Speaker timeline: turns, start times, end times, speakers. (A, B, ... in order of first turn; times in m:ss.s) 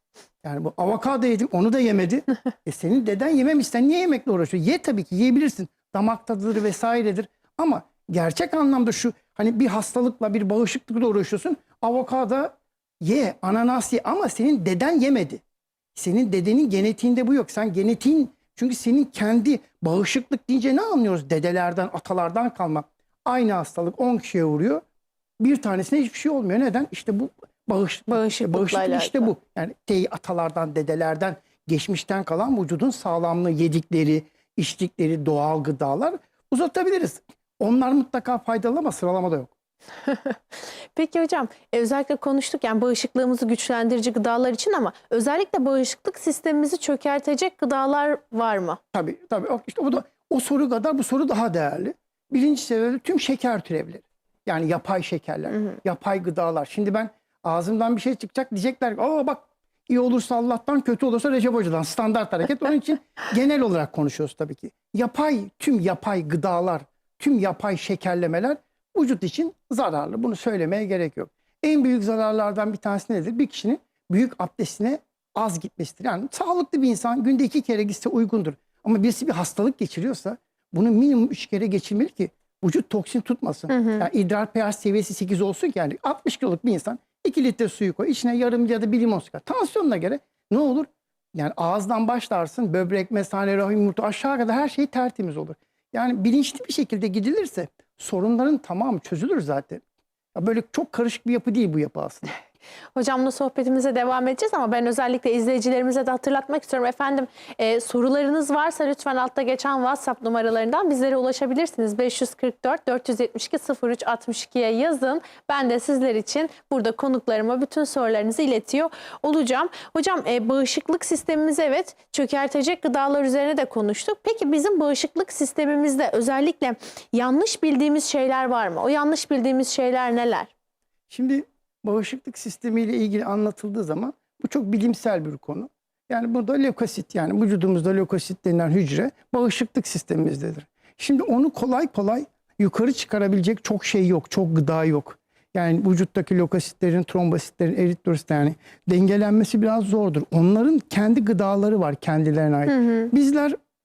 0:00.4-0:15.4 A
0:15.9-0:24.8 A
0:25.4-0:39.5 A
0:28.1-0:29.3 B
0:40.0-0:40.4 B
0:40.9-0:48.8 B
0:48.9-1:39.8 A
1:23.7-1:24.1 B
1:40.3-1:42.3 A
1:42.9-2:10.5 B
2:11.1-2:33.5 A
2:32.7-2:33.1 B